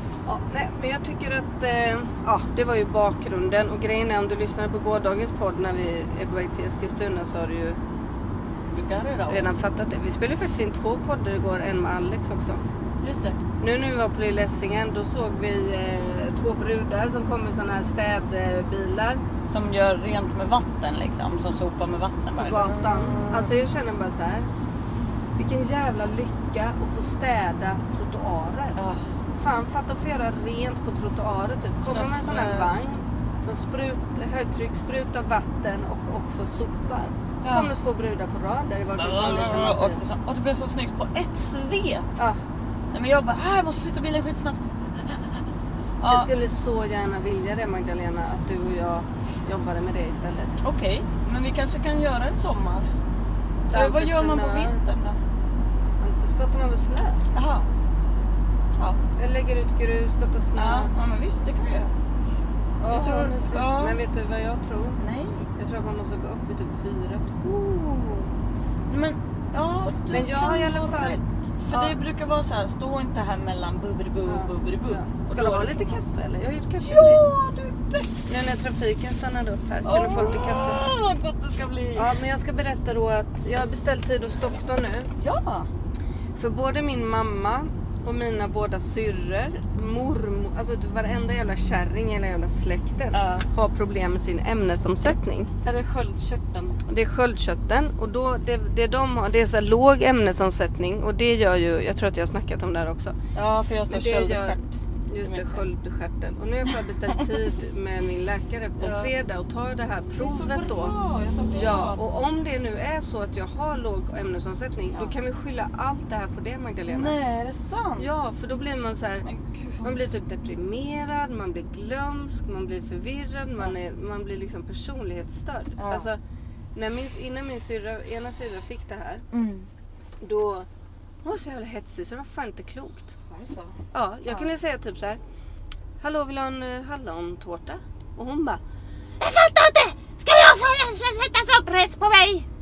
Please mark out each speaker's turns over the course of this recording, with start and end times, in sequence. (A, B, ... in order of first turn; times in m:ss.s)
0:00.2-0:07.8 A
0:08.7-0:09.5 B
0:09.3-0:12.6 A
0:13.0-0:13.4 B
0:13.6-0:19.2 A
0:19.5-0:23.5 B
0:22.4-0:24.5 A
0:25.4-0:28.8 A
0:28.8-0:29.1 B
0:29.3-0:40.0 A
0:31.8-0:32.8 B
0:37.4-0:37.7 B
0:38.9-0:42.1 B
0:42.9-0:45.4 B
0:46.0-0:46.3 B
0:46.1-0:50.6 A
0:50.6-0:52.9 B
0:53.7-0:54.7 A
0:53.7-0:55.2 B
0:56.0-0:57.2 A
0:57.3-0:57.7 B
0:59.1-1:00.9 A
1:00.6-1:01.9 B
1:02.8-1:05.0 A
1:02.9-1:04.0 B
1:05.0-1:05.5 B
1:05.6-1:08.3 A
1:07.6-1:08.2 B
1:08.9-1:16.0 B
1:10.1-1:12.0 A
1:14.2-1:17.2 A
1:16.8-1:18.3 B
1:18.3-1:20.8 A
1:19.8-1:22.2 B
1:21.9-1:25.1 A
1:25.2-1:25.7 B
1:26.4-1:35.5 A
1:33.1-1:33.5 B
1:35.6-1:36.8 B
1:36.8-1:43.2 A
1:43.3-1:45.6 B
1:43.9-1:44.6 A
1:45.1-1:50.9 A
1:48.8-1:49.1 B
1:50.2-1:52.0 B
1:51.5-1:57.2 A
1:56.9-1:58.1 B
1:58.0-1:59.2 A
1:59.2-2:00.1 B
1:59.8-2:06.2 A
2:05.8-2:06.1 B
2:06.7-2:09.2 A
2:09.3-2:09.7 B
2:10.2-2:10.7 A
2:11.2-2:13.1 A
2:13.3-2:14.5 B
2:13.9-2:15.2 A
2:16.0-2:18.6 A
2:19.2-2:22.5 A